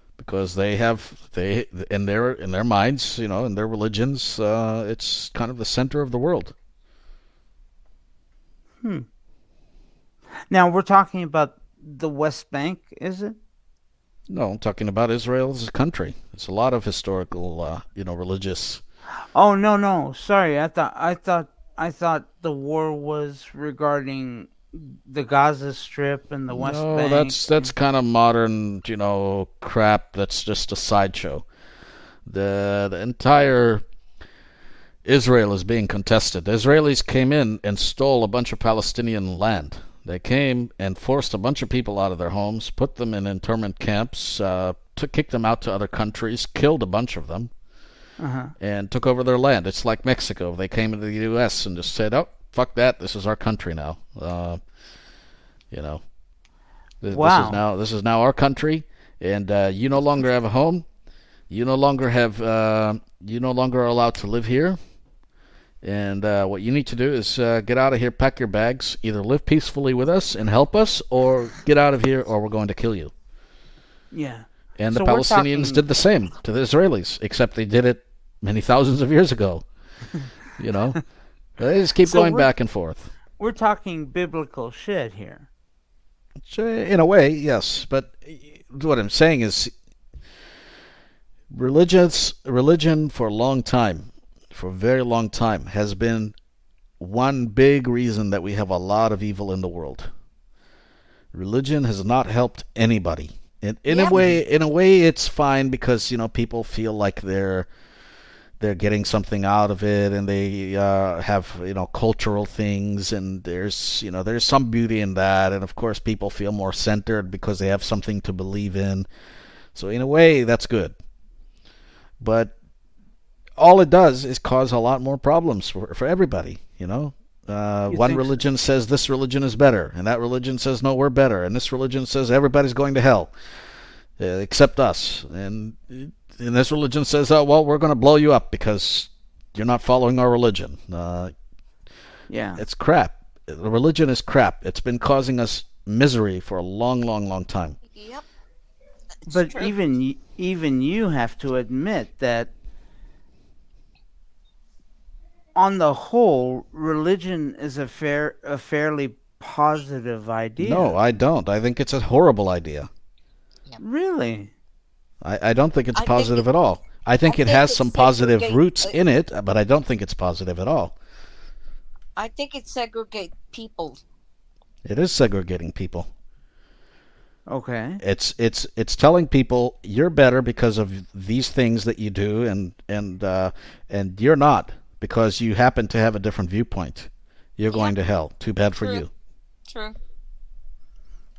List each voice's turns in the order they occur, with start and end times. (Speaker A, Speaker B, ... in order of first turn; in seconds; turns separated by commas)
Speaker A: 0.2-6.5, Speaker B: 8.8-9.1, Speaker B: 10.5-13.4, Speaker A: 14.3-18.8, Speaker B: 19.3-27.7, Speaker A: 26.5-31.4, Speaker A: 32.3-33.8, Speaker A: 35.0-47.5, Speaker B: 48.2-48.5, Speaker A: 48.6-54.6, Speaker A: 55.7-56.0, Speaker A: 57.0-60.9, Speaker B: 57.1-57.6, Speaker A: 61.5-64.8, Speaker A: 65.8-73.1, Speaker B: 74.1-75.8, Speaker A: 74.8-79.7, Speaker A: 80.6-81.0, Speaker A: 81.6-83.1, Speaker B: 82.0-82.5, Speaker B: 83.4-85.5, Speaker A: 86.5-89.7, Speaker A: 91.5-96.3, Speaker A: 97.0-100.1, Speaker A: 101.3-107.7, Speaker C: 103.9-104.3, Speaker A: 108.6-119.1, Speaker A: 119.7-120.9, Speaker A: 122.2-122.5, Speaker A: 123.6-133.3, Speaker B: 127.9-128.4, Speaker A: 134.2-141.3, Speaker B: 142.3-142.6, Speaker A: 142.6-147.8, Speaker C: 147.9-148.2, Speaker C: 149.3-149.7, Speaker B: 149.3-152.5, Speaker B: 155.6-161.0, Speaker A: 160.6-162.9, Speaker B: 163.8-164.5, Speaker A: 165.2-170.9, Speaker C: 165.9-166.4, Speaker C: 167.3-168.9, Speaker C: 172.2-174.0, Speaker A: 174.8-176.1, Speaker B: 177.5-178.0, Speaker A: 178.0-189.1, Speaker C: 188.8-189.0, Speaker C: 189.7-189.9